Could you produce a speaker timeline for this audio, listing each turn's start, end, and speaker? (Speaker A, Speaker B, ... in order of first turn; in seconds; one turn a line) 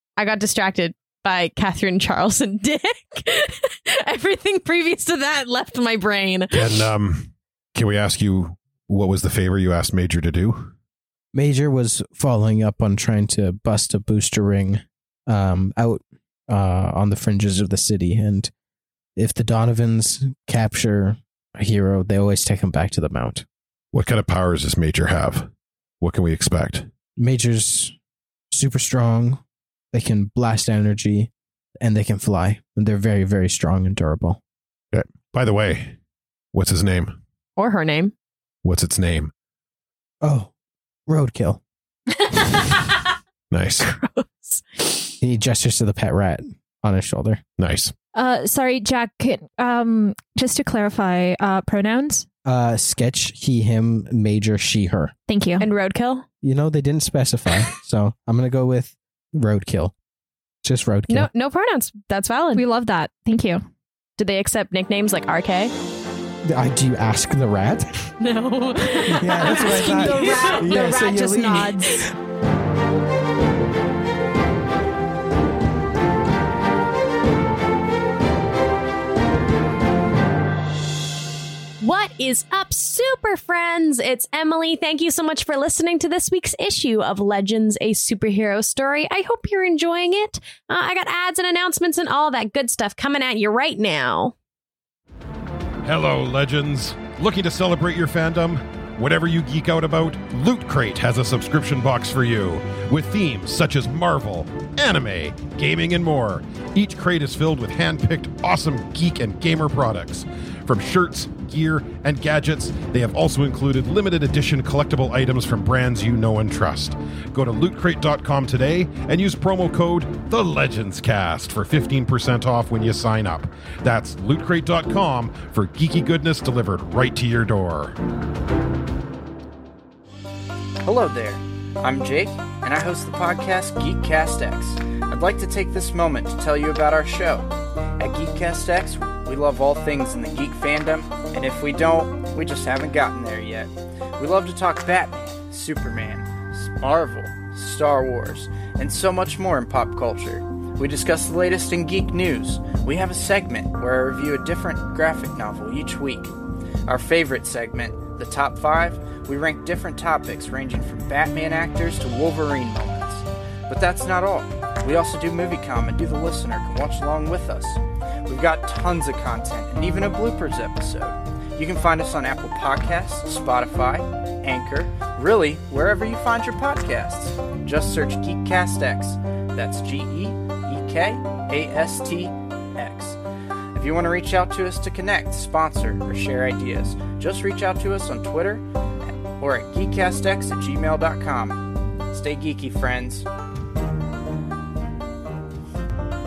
Speaker A: 0.2-6.9
Speaker B: 6.5-10.7
Speaker C: 11.3-18.5
Speaker C: 19.2-23.4
Speaker B: 23.9-25.5
Speaker B: 26.0-26.9
Speaker C: 27.2-27.9
Speaker C: 28.5-29.4
Speaker C: 29.9-34.4
Speaker B: 34.9-36.0
Speaker B: 36.5-37.2
Speaker A: 37.6-38.1
Speaker B: 38.6-39.3
Speaker C: 40.2-40.5
Speaker C: 41.1-41.6
Speaker B: 43.5-43.9
Speaker A: 43.9-45.1
Speaker C: 45.2-47.4
Speaker B: 47.6-47.9
Speaker D: 48.1-52.3
Speaker C: 52.5-55.1
Speaker D: 55.3-55.7
Speaker A: 55.6-56.2
Speaker C: 56.4-59.9
Speaker C: 60.6-61.3
Speaker A: 61.1-62.6
Speaker D: 62.5-63.6
Speaker A: 64.2-65.7
Speaker C: 66.5-68.1
Speaker A: 68.2-71.0
Speaker C: 69.1-72.0
Speaker D: 69.3-72.0
Speaker A: 81.8-94.3
Speaker B: 95.8-128.0
Speaker E: 130.8-156.3
Speaker E: 156.9-183.2
Speaker E: 183.7-193.3